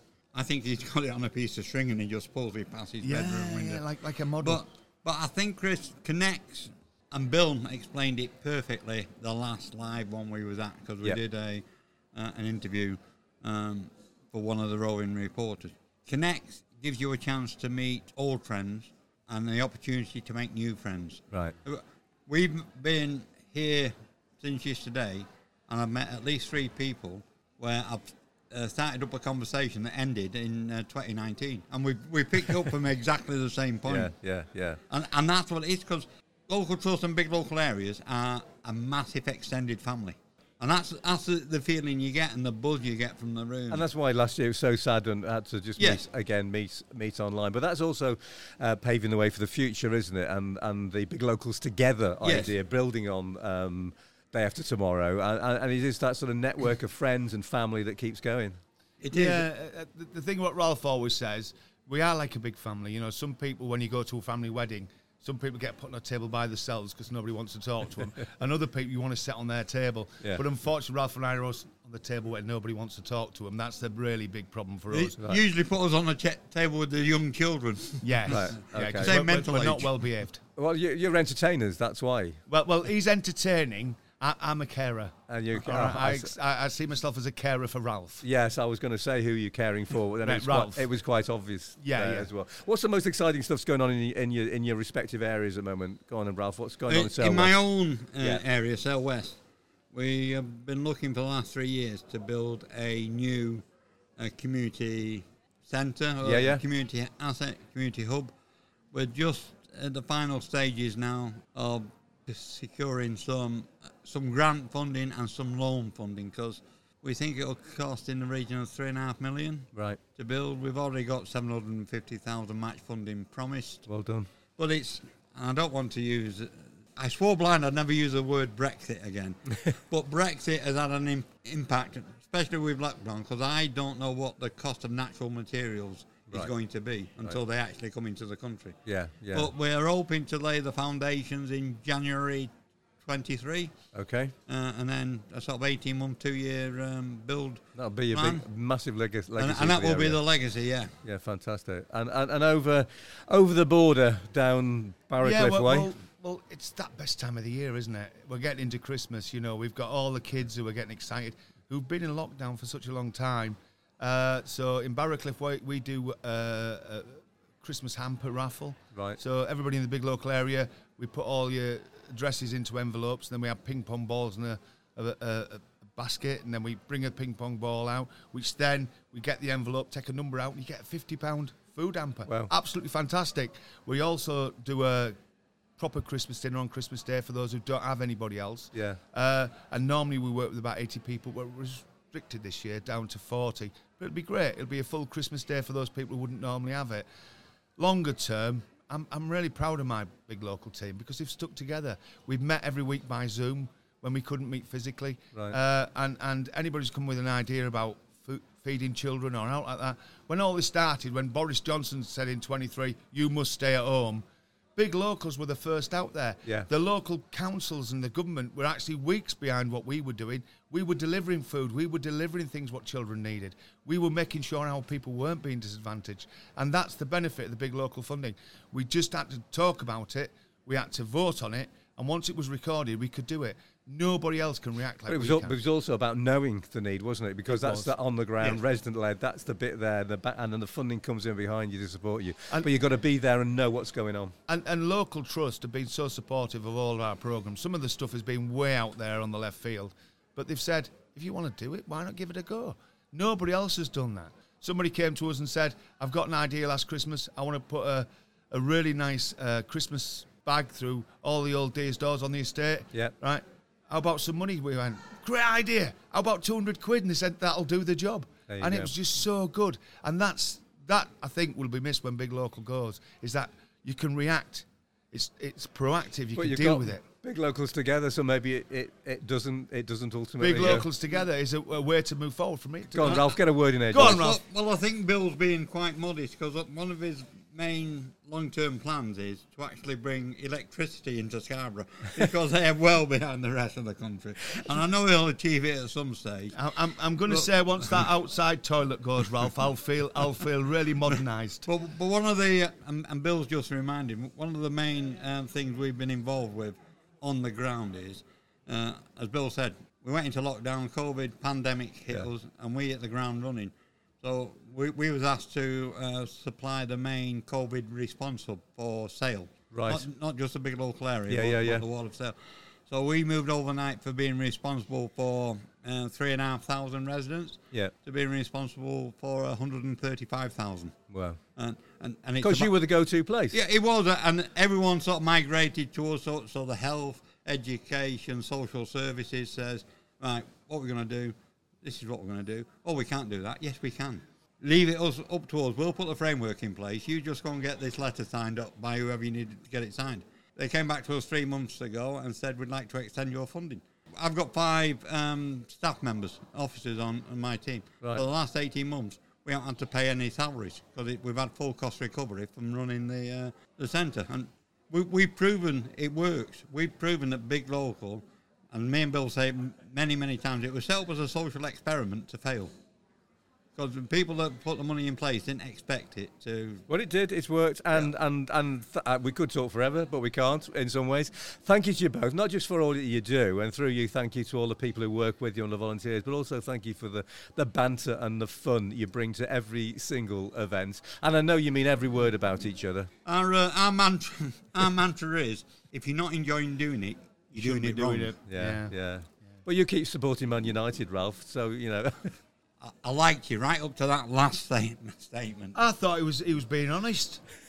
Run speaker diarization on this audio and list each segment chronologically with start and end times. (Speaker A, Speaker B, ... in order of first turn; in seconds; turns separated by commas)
Speaker A: 0.3-3.9, Speaker B: 3.0-4.6, Speaker A: 4.4-34.1, Speaker C: 33.9-34.8, Speaker A: 34.9-43.8, Speaker C: 43.7-58.6, Speaker A: 45.8-46.0, Speaker A: 52.2-52.5, Speaker A: 59.0-59.5, Speaker B: 59.1-75.2, Speaker A: 74.9-80.0, Speaker B: 78.0-80.4, Speaker C: 78.3-79.1, Speaker C: 80.6-82.4, Speaker B: 82.5-88.2, Speaker C: 85.3-86.3, Speaker C: 88.2-97.6, Speaker B: 90.2-90.9, Speaker B: 91.8-92.3, Speaker A: 96.9-99.4, Speaker A: 99.9-103.6, Speaker A: 104.2-108.3, Speaker C: 106.2-106.6, Speaker A: 108.9-123.8, Speaker C: 119.7-120.0, Speaker C: 123.9-124.3, Speaker A: 124.6-138.8, Speaker C: 138.8-139.5, Speaker A: 139.3-142.5, Speaker A: 143.0-143.7, Speaker C: 143.9-144.3, Speaker A: 144.5-148.4, Speaker C: 147.8-150.2, Speaker A: 149.4-150.9, Speaker C: 151.0-155.9, Speaker B: 155.2-185.1, Speaker B: 185.8-197.1, Speaker C: 188.7-189.0, Speaker B: 197.8-214.2, Speaker B: 214.8-235.6, Speaker C: 235.1-244.3, Speaker B: 237.4-238.6, Speaker B: 244.5-277.0, Speaker C: 268.5-268.9, Speaker C: 276.3-280.9, Speaker B: 280.4-283.4, Speaker C: 282.9-284.2, Speaker A: 283.0-283.3, Speaker B: 283.9-284.4, Speaker A: 283.9-296.6, Speaker B: 296.5-301.6, Speaker A: 297.3-298.1, Speaker A: 301.6-322.4, Speaker C: 319.7-320.0, Speaker C: 321.3-321.8, Speaker A: 322.9-330.9, Speaker C: 331.1-331.4, Speaker A: 331.6-332.7, Speaker C: 332.4-333.6, Speaker A: 333.5-372.7, Speaker A: 373.8-376.8, Speaker C: 376.9-393.1, Speaker A: 393.2-398.4, Speaker B: 397.5-398.9, Speaker C: 398.4-402.3, Speaker A: 402.8-405.8, Speaker B: 405.7-407.4